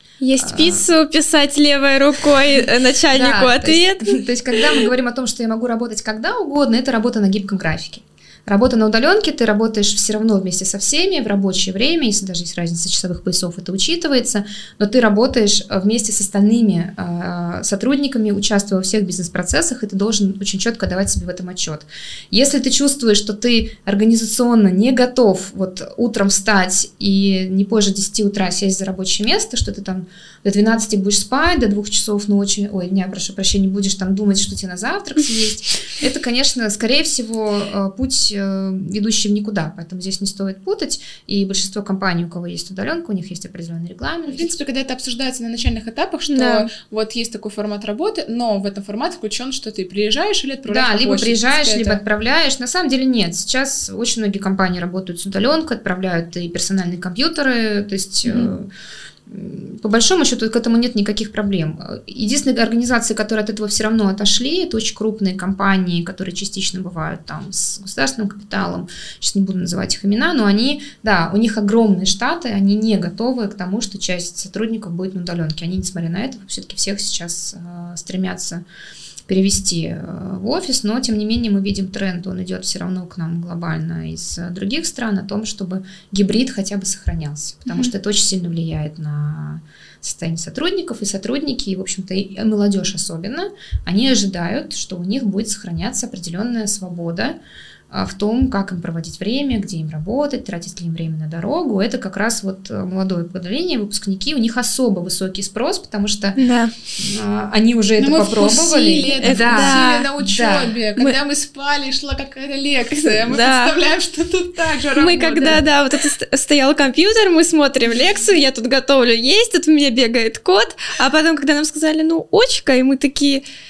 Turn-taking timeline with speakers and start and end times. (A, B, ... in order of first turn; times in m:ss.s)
0:00.2-0:04.8 A
0:00.4-0:00.8 B
0:03.1-0:44.6 B
0:44.3-0:52.0 C
0:46.3-0:46.7 A
0:50.7-0:58.7 B
0:59.3-1:18.6 B
1:19.3-1:37.4 B
1:37.9-1:46.4 B
1:46.4-1:46.7 A
1:47.0-1:50.8 B
1:48.0-1:55.6 C
1:49.2-1:50.1 A
1:53.2-1:53.7 A
1:54.9-2:03.4 A